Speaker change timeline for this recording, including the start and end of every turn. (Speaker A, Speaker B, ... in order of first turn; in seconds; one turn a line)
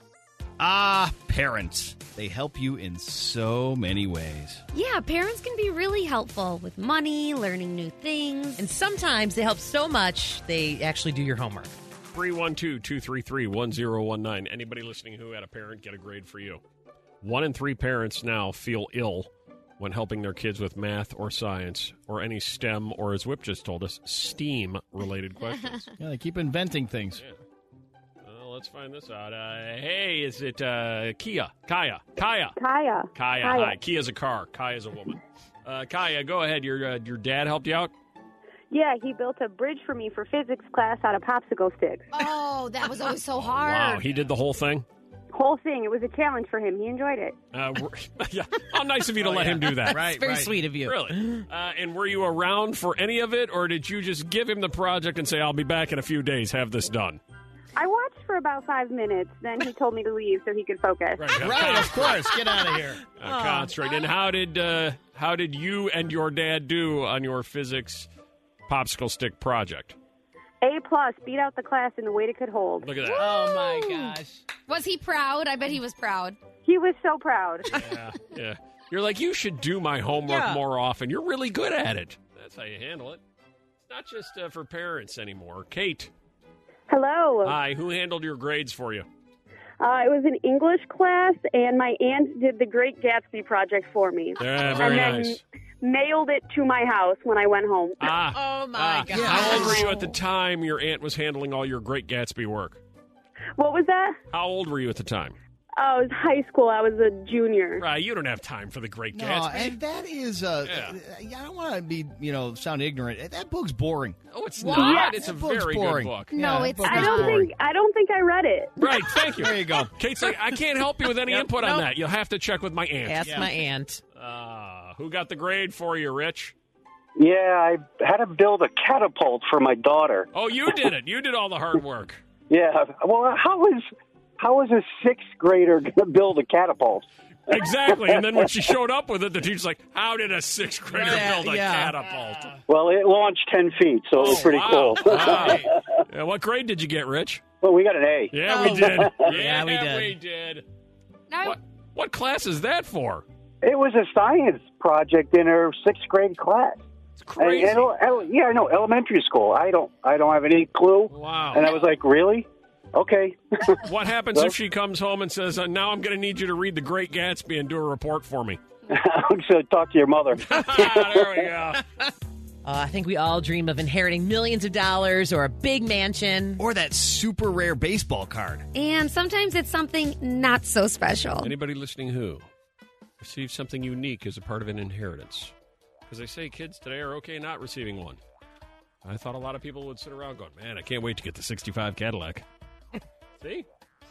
Speaker A: 0.6-4.6
Speaker B: 4.7-8.7
Speaker C: 8.6-11.7
Speaker D: 12.1-16.6
Speaker D: 17.2-25.9
Speaker A: 26.0-27.2
Speaker D: 28.2-32.6
Speaker E: 32.6-33.8
Speaker D: 33.1-37.9
Speaker E: 38.7-42.1
Speaker B: 42.1-44.0
Speaker D: 43.4-44.9
Speaker E: 45.3-47.4
Speaker D: 47.5-50.1
Speaker A: 49.2-50.5
Speaker C: 49.7-51.4
Speaker D: 50.7-57.2
Speaker E: 57.8-61.6
Speaker D: 61.2-62.3
Speaker A: 61.4-63.0
Speaker D: 63.2-68.1
Speaker C: 63.3-63.7
Speaker D: 68.7-70.0
Speaker E: 70.6-72.9
Speaker D: 72.8-73.4
Speaker B: 73.0-76.4
Speaker C: 73.5-73.8
Speaker E: 76.7-77.7
Speaker D: 77.7-83.2
Speaker C: 80.2-80.6
Speaker D: 83.8-86.1
Speaker E: 86.9-87.6
Speaker D: 87.4-89.1
Speaker E: 89.8-98.1
Speaker D: 94.4-95.4
Speaker D: 98.0-102.8
Speaker C: 98.3-99.8
Speaker A: 99.1-100.1
Speaker E: 103.6-104.2
Speaker D: 104.3-105.4
Speaker E: 105.8-107.8
Speaker D: 107.8-109.8
Speaker A: 109.1-114.2
Speaker D: 110.6-111.0
Speaker D: 114.3-116.5
Speaker B: 114.6-115.0
Speaker E: 114.7-115.2
Speaker A: 115.0-117.5
Speaker B: 116.3-117.5
Speaker E: 116.8-118.8
Speaker D: 117.1-117.5
Speaker D: 118.8-123.4
Speaker A: 119.3-119.9
Speaker C: 121.3-121.9
Speaker C: 123.0-124.0
Speaker A: 123.2-123.5
Speaker D: 124.2-126.5
Speaker F: 127.2-130.3
Speaker D: 130.3-132.2
Speaker F: 132.5-133.8
Speaker F: 134.4-137.7
Speaker D: 137.5-142.6
Speaker C: 140.9-142.0
Speaker F: 142.7-145.8
Speaker D: 144.2-147.4
Speaker F: 147.6-149.3
Speaker D: 148.3-150.7
Speaker C: 148.5-150.2
Speaker B: 151.3-151.6
Speaker D: 151.4-153.3
Speaker F: 153.6-156.8
Speaker D: 157.2-158.0
Speaker F: 157.4-163.8
Speaker D: 161.1-161.7
Speaker D: 163.8-168.6
Speaker F: 168.9-171.4
Speaker D: 170.4-171.8
Speaker C: 172.6-176.6
Speaker A: 176.6-178.7
Speaker B: 178.7-181.5
Speaker D: 181.4-182.5
Speaker D: 183.2-185.5
Speaker D: 186.1-188.2
Speaker D: 189.0-192.5
Speaker D: 193.4-193.7